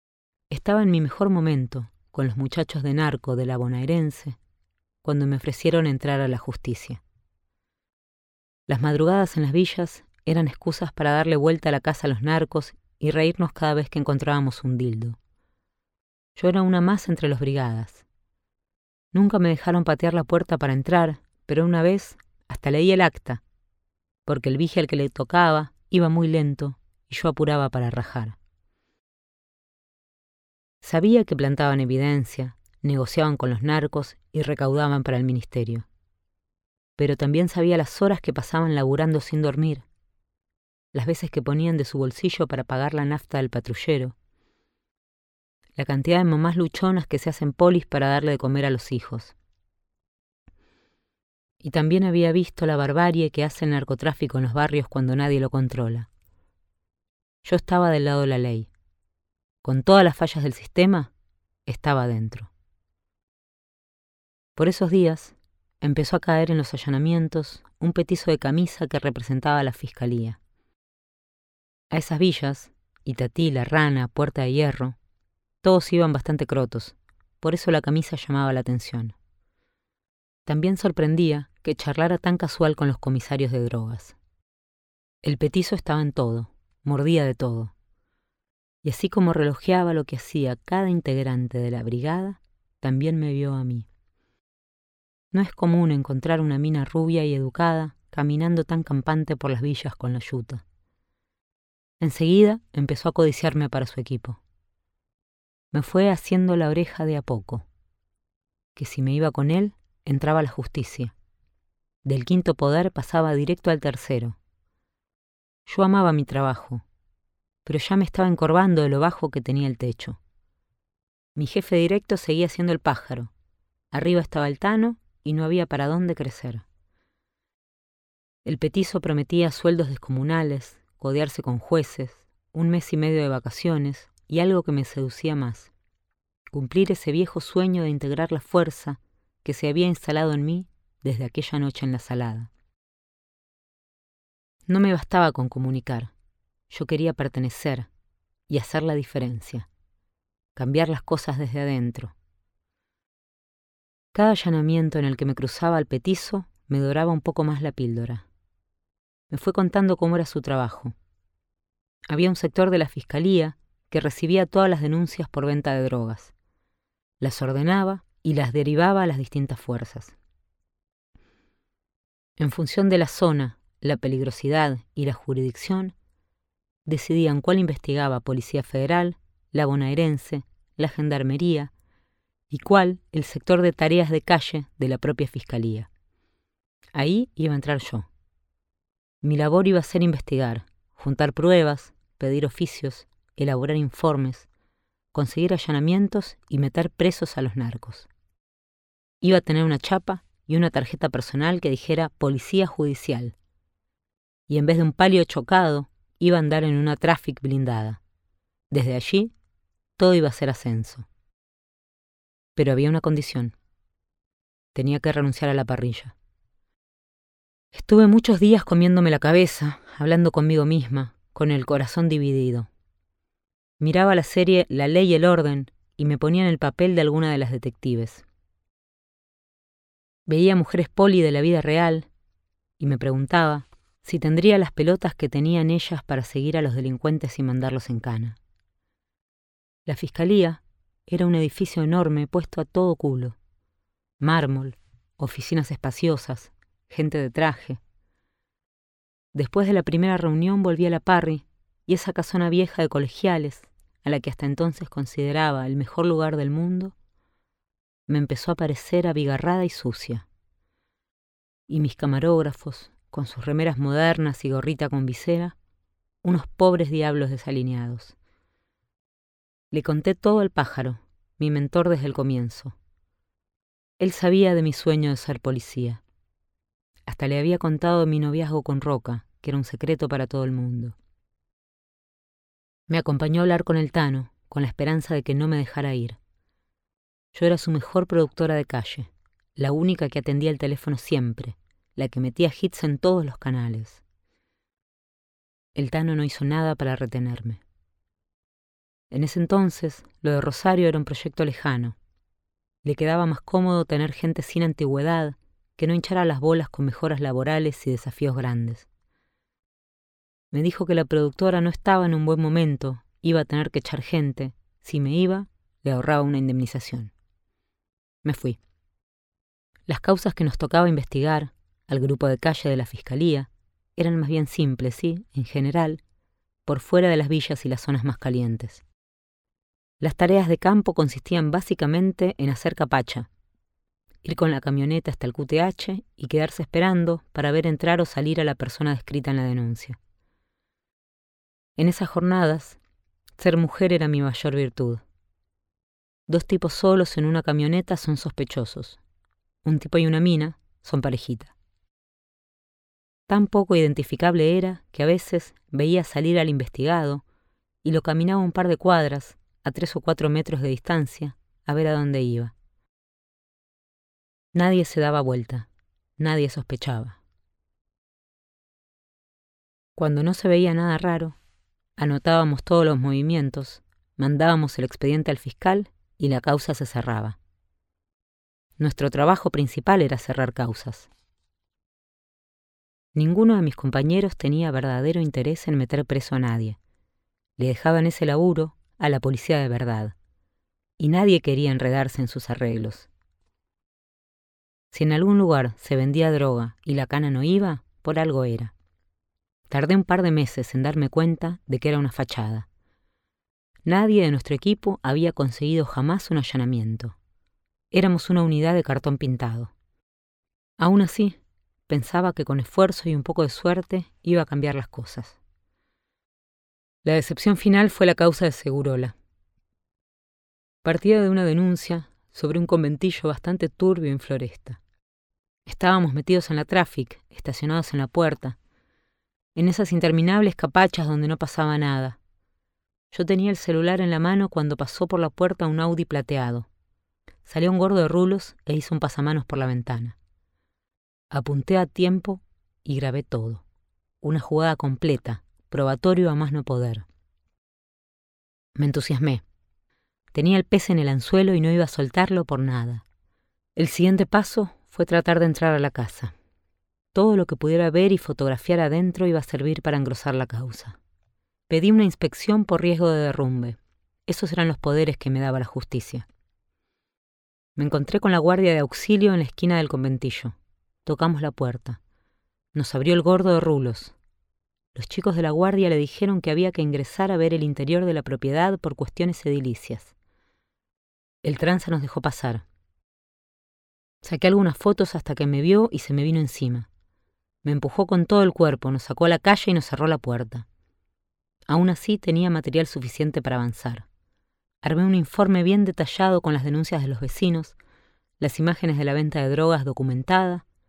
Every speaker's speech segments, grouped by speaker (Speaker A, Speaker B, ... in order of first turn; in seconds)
Speaker A: 0.5-4.4, 5.0-7.0, 8.7-15.2, 16.4-18.0, 19.1-23.4, 24.2-28.4, 30.8-35.9, 37.0-39.9, 40.9-44.1, 45.8-49.3, 51.6-56.1, 57.4-58.7, 59.6-61.1, 61.7-62.5, 64.5-70.4, 71.9-75.0, 75.6-79.1, 80.5-84.2, 85.2-87.7, 88.8-93.9, 95.3-100.6, 102.0-104.4, 105.7-107.7, 108.7-111.1, 112.0-114.4, 115.7-116.8, 117.6-120.2, 121.3-123.3, 123.9-126.6, 128.4-135.7, 136.5-142.5, 144.7-146.1, 146.7-147.9, 148.5-149.7, 150.6-152.1, 154.1-158.2, 159.3-160.9, 162.1-166.3, 167.2-170.2, 172.4-175.9, 176.8-181.7, 182.5-185.9, 186.9-188.1, 189.2-194.5, 195.1-198.1, 199.2-203.3, 204.5-208.0, 208.7-209.3, 210.0-211.1, 212.6-213.5, 214.7-216.1, 217.7-222.7, 223.8-228.2, 230.3-232.1, 232.8-238.4, 239.8-243.3, 244.2-247.8, 249.3-256.9, 258.1-260.2, 261.7-265.5, 266.2-268.1, 269.7-272.8, 274.0-276.0, 277.1-280.9, 282.9-286.2, 287.3-294.0, 295.7-297.6, 299.1-301.9, 302.8-308.9, 310.5-317.1, 318.2-318.6, 319.9-326.0, 326.6-328.8, 330.0-333.3, 334.2-340.0, 341.8-342.8, 343.4-345.0, 346.3-349.0, 349.6-351.5, 353.3-357.2, 357.8-362.5, 364.5-367.2, 369.9-371.4, 372.0-377.4, 378.8-381.1, 383.1-386.8, 387.6-390.1, 391.0-393.1, 394.9-398.7, 399.7-402.7, 403.9-407.1, 407.9-409.7, 410.8-415.4, 417.0-419.1, 420.8-424.8, 425.6-428.6, 429.5-432.2, 433.1-436.7, 437.4-440.1, 441.3-443.6, 444.2-447.1, 448.8-449.4, 450.3-453.0, 453.8-456.3, 457.1-461.0, 461.7-466.2, 467.8-472.0, 472.7-474.1, 474.9-480.1, 481.4-482.6, 484.2-486.9, 487.6-490.6, 491.7-494.1, 494.8-497.8, 498.4-500.6